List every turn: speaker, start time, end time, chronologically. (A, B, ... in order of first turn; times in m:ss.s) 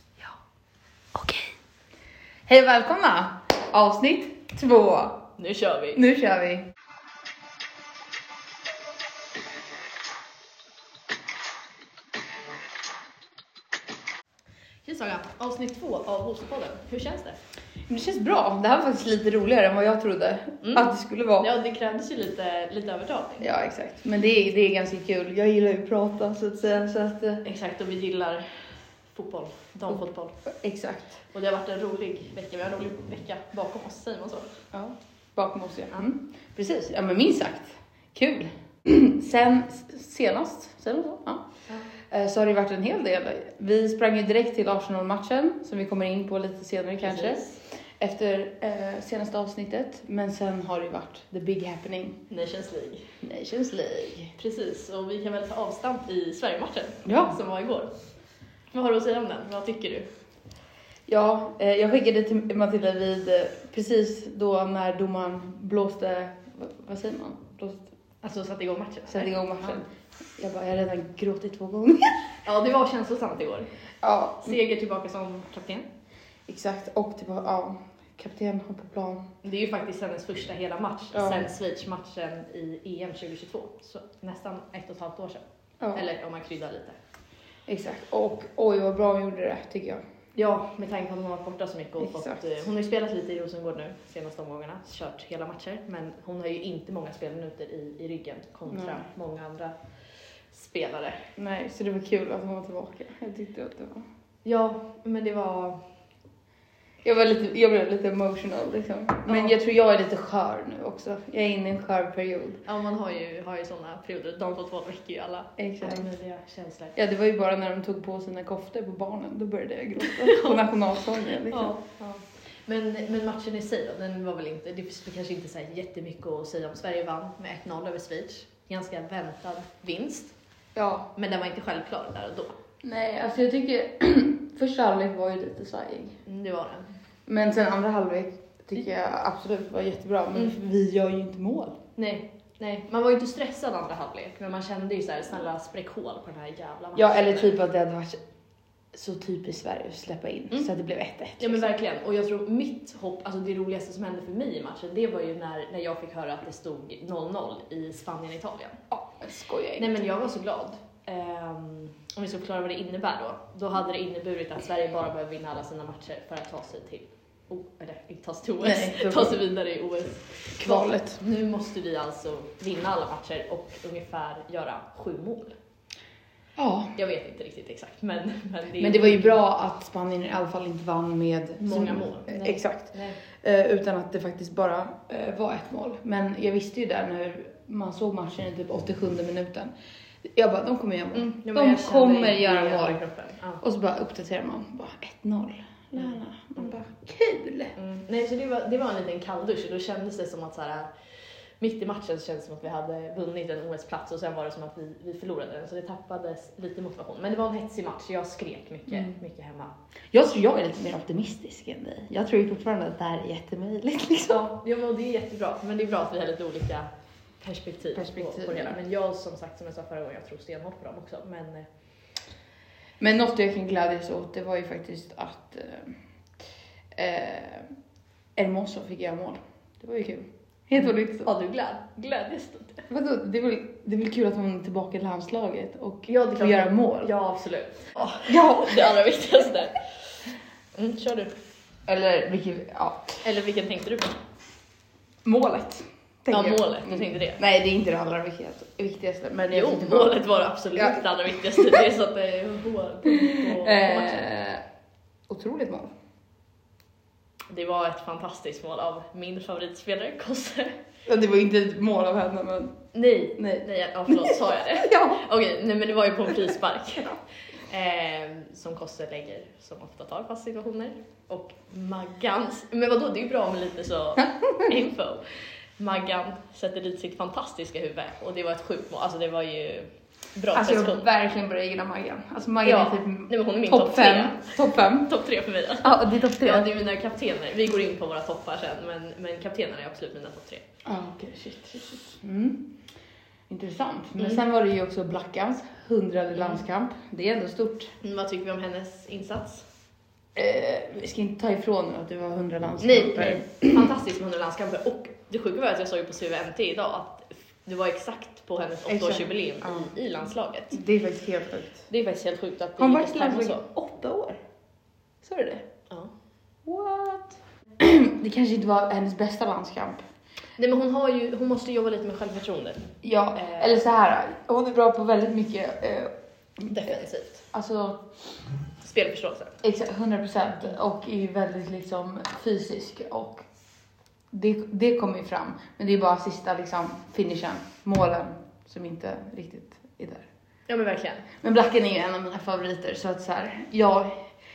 0:01.1-0:01.6 A
0:02.5-0:05.3 A
0:05.4-0:06.0 B
0:06.0-0:06.7 A
0:14.8-0:17.4 B
0:17.9-0:21.5 A
0:20.6-0:23.5 B
0:23.4-0:27.4 A
0:27.4-0:28.5 B
0:29.1-0:30.4 B
0:30.0-0:31.2 A
0:31.3-0:34.6 B
0:34.7-0:41.4 A
0:42.0-0:52.2 A
0:47.0-0:47.6 B
0:52.3-0:53.1 B
0:53.2-0:54.3 A
0:54.4-0:57.9 B
0:57.0-0:57.4 A
0:58.7-1:00.1 B
1:01.1-1:07.8 A
1:08.2-1:09.8 B
1:09.1-1:09.9 A
1:10.4-1:12.2 A
1:12.4-1:13.7 B
1:14.0-1:14.6 A
1:14.4-1:15.9 B
1:16.5-1:19.3 A
1:19.4-1:27.0 B
1:21.1-1:21.5 A
1:27.7-1:30.0 A
1:30.4-1:39.8 B
1:32.0-1:32.4 A
1:38.7-1:39.0 A
1:40.5-1:41.3 B
1:41.4-1:44.1 A
1:44.4-1:45.8 B
1:47.0-1:52.6 A
1:49.3-1:49.5 B
1:52.6-1:57.0 B
1:55.6-1:56.1 A
1:57.0-2:01.7 A
2:00.0-2:10.4 B
2:10.8-2:11.1 A
2:11.2-2:12.6 B
2:12.8-2:16.2 A
2:16.3-2:16.9 B
2:17.3-2:21.8 A
2:22.0-2:27.6 B
2:27.0-2:28.2 A
2:28.9-2:31.7 A
2:31.4-2:38.8 B
2:38.9-2:39.9 A
2:39.8-2:55.5 B
2:48.6-2:49.4 A
2:50.6-2:51.2 A
2:56.6-2:56.9 A
2:57.0-2:59.4 B
2:58.8-3:13.0 A
3:01.6-3:03.2 B
3:11.2-3:13.6 B
3:13.6-3:17.7 A
3:17.8-3:20.9 B
3:21.6-3:29.7 B
3:28.9-3:29.2 A
3:30.1-3:34.5 A
3:34.3-3:36.9 B
3:37.4-3:41.7 B
3:37.9-3:38.8 A
3:43.0-3:46.0 A
3:47.0-3:47.7 A
3:48.4-3:51.3 A
3:50.8-3:52.9 B
3:52.9-3:57.1 A
3:56.1-3:59.8 B
3:58.2-3:59.0 A
4:00.8-4:01.3 B
4:01.9-4:03.2 A
4:03.2-4:04.2 B
4:05.2-4:10.2 A
4:06.3-4:07.4 B
4:09.5-4:14.3 B
4:10.8-4:11.8 A
4:13.1-4:14.6 A
4:15.3-4:15.9 A
4:17.5-4:20.8 B
4:21.1-4:22.8 A
4:22.9-4:35.2 B
4:23.4-4:25.2 A
4:35.8-4:41.1 B
4:40.5-4:45.1 A
4:42.6-4:50.6 B
4:45.8-4:46.7 A
4:50.8-4:52.7 A
4:53.5-4:57.9 A
4:58.0-4:59.7 B
5:00.4-5:03.9 A
5:02.8-5:10.8 B
5:08.9-5:09.9 A
5:10.7-5:11.9 A
5:11.9-5:13.6 B
5:12.8-5:14.4 A
5:15.2-5:15.6 A
5:15.9-5:16.1 B
5:16.6-5:20.0 A
5:20.6-5:23.8 B
5:23.0-5:27.0 A
5:26.7-5:27.4 B
5:27.5-5:28.1 A
5:28.8-5:29.6 B
5:29.6-5:33.4 A
5:34.3-5:40.3 A
5:40.7-5:41.3 B
5:41.4-5:44.2 A